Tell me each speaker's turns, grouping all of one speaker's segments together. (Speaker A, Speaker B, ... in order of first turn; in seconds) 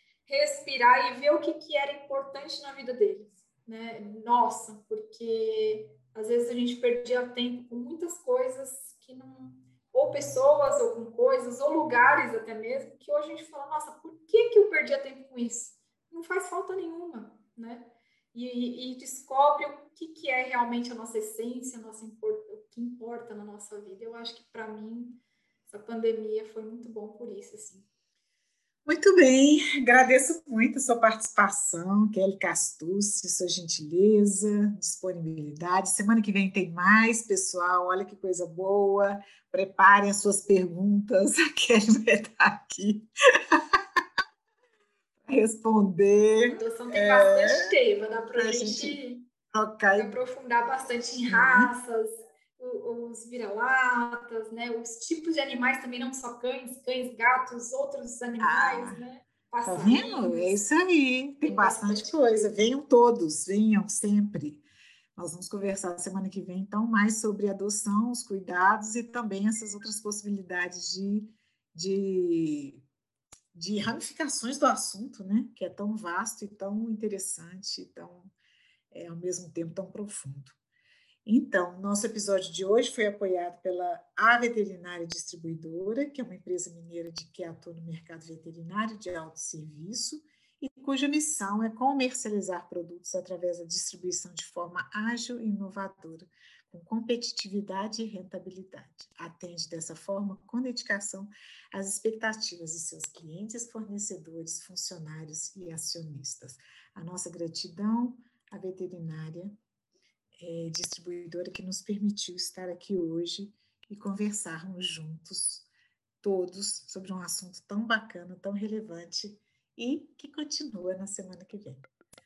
Speaker A: 0.3-27.9, 46.5-49.3, 49.9-60.6, 61.4-62.6
Speaker B: 28.9-43.8, 45.3-47.7, 48.4-49.0, 49.5-50.1, 51.3-51.7, 58.4-59.1, 59.7-64.6, 65.2-72.8, 73.5-78.3, 78.9-80.6, 81.3-109.6, 110.4-115.7, 116.2-121.8